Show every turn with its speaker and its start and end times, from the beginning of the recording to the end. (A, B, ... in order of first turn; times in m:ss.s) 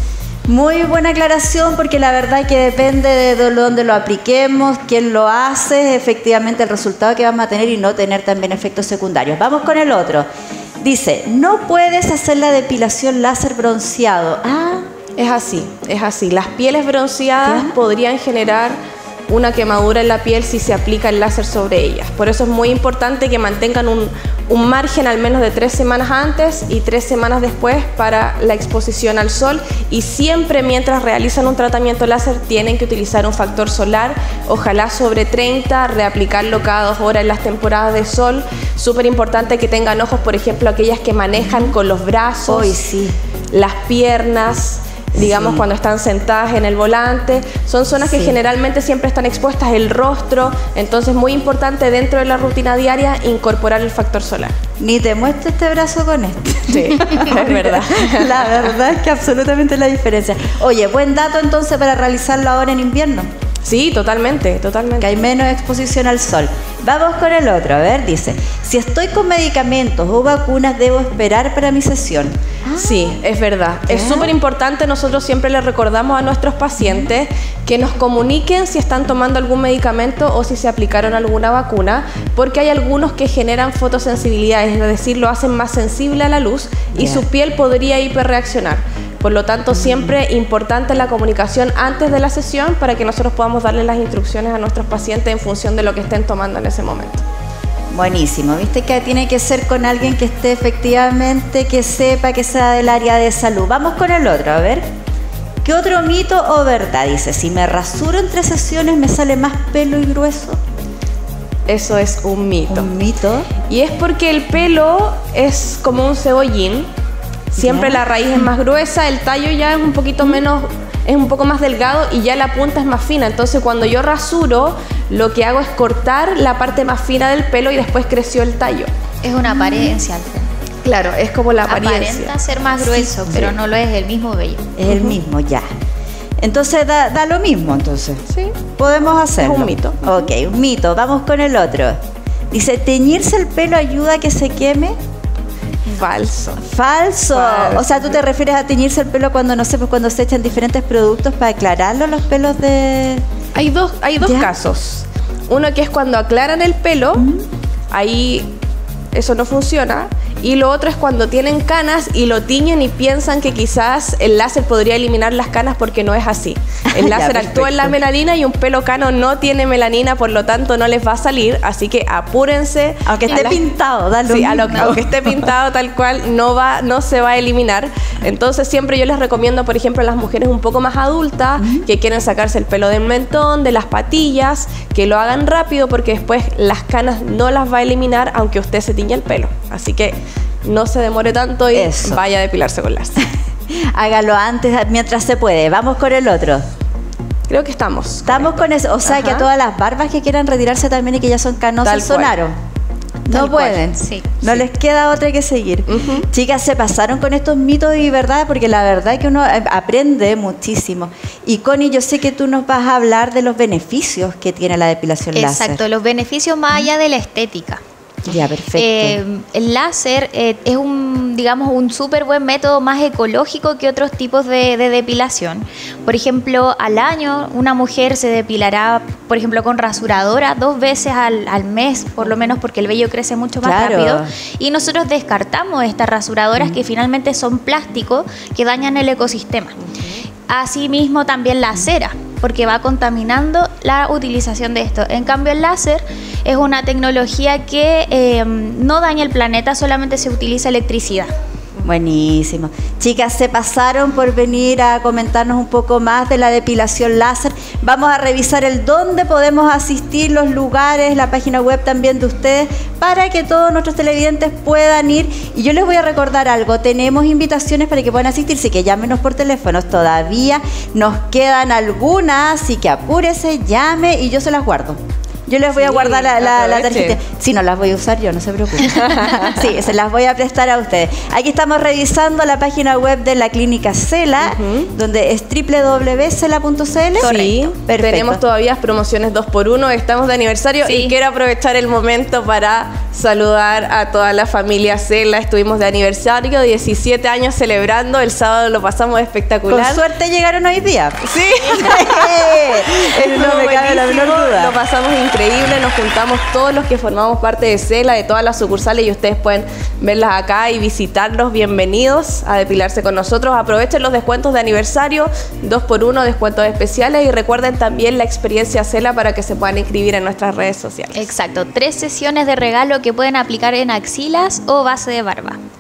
0:00.5-0:10.3 A
0:10.8-0:14.8 A
0:15.2-0:18.8 B
0:17.4-0:17.7 A
0:19.3-0:42.8 B
0:41.4-0:41.7 A
0:42.5-0:43.1 A
0:43.5-0:54.5 B
0:45.2-0:45.6 A
0:48.1-0:48.4 A
0:54.8-1:03.3 A
0:56.7-0:58.7 B
1:03.6-1:05.1 B
1:05.0-1:13.2 A
1:12.8-1:37.2 B
1:13.9-1:14.3 A
1:16.8-1:17.1 A
1:26.9-1:27.2 A
1:29.7-1:30.1 A
1:37.9-1:44.8 A
1:45.6-1:50.6 A
1:51.7-1:52.9 B
1:52.7-1:53.5 A
1:53.7-1:56.9 B
1:57.5-2:08.9 B
1:57.6-1:58.0 A
2:09.2-2:10.5 C
2:10.8-2:12.3 B
2:11.6-2:14.7 C
2:13.0-2:13.3 B
2:13.3-2:13.5 A
2:14.8-2:15.6 A
2:14.9-2:15.2 B
2:16.4-2:18.2 A
2:18.3-2:18.6 B
2:18.7-2:22.0 A
2:19.3-2:20.1 B
2:22.5-2:25.0 A
2:25.9-2:26.6 B
2:26.6-2:33.2 A
2:27.3-2:28.2 B
2:33.5-2:37.3 B
2:34.2-2:34.5 A
2:37.2-2:37.4 A
2:37.9-2:38.5 B
2:39.1-2:53.7 B
2:46.9-2:48.0 A
2:53.0-2:55.2 A
2:54.2-3:13.2 B
3:01.6-3:01.8 A
3:11.7-3:12.2 A
3:13.7-3:16.6 A
3:17.5-3:19.5 B
3:18.2-3:22.5 A
3:21.8-3:22.3 B
3:23.2-3:35.8 A
3:23.3-3:24.3 C
3:25.9-3:26.3 B
3:35.3-3:37.8 C
3:38.2-3:39.2 A
3:38.7-3:59.8 C
3:53.6-3:54.3 A
3:59.9-4:00.2 B
4:00.5-4:11.3 C
4:11.8-4:48.4 A
4:35.7-4:37.2 B
4:38.9-4:39.6 B
4:44.4-4:44.9 B
4:47.2-5:00.0 B
4:47.2-4:47.5 C
4:50.8-4:51.1 C
4:59.7-5:04.7 A
5:01.2-5:21.3 B
5:21.1-5:25.6 C